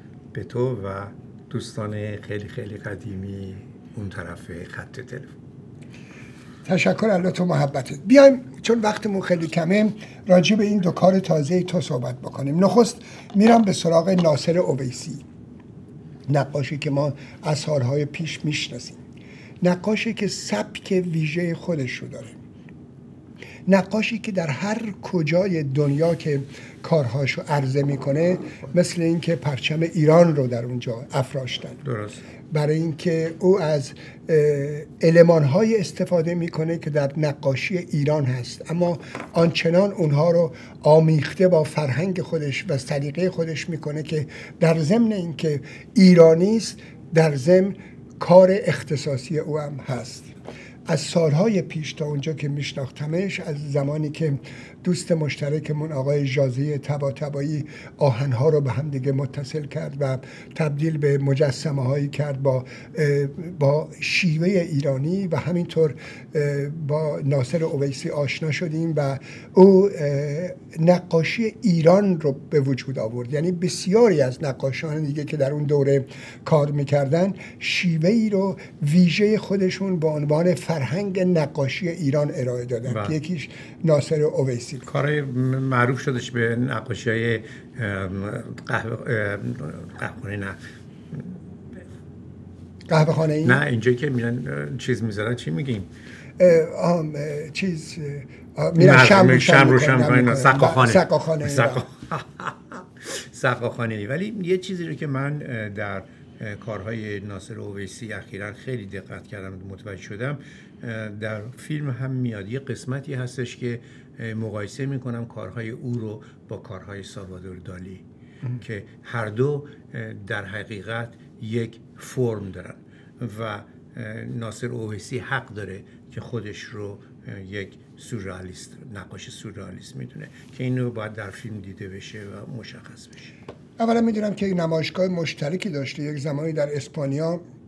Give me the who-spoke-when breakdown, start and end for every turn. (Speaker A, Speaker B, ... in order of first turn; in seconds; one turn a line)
Speaker A: 0.3-5.3
Speaker B: 6.6-15.2
Speaker B: 16.3-19.0
Speaker B: 19.6-22.4
Speaker B: 23.7-31.8
Speaker A: 31.8-32.2
Speaker B: 32.5-50.3
Speaker B: 50.9-84.8
Speaker A: 82.8-83.2
Speaker A: 84.8-90.6
Speaker A: 91.1-91.8
Speaker B: 92.9-93.6
Speaker A: 93.4-95.9
Speaker B: 96.4-101.8
Speaker A: 98.8-118.0
Speaker A: 118.6-133.3
Speaker B: 133.8-137.4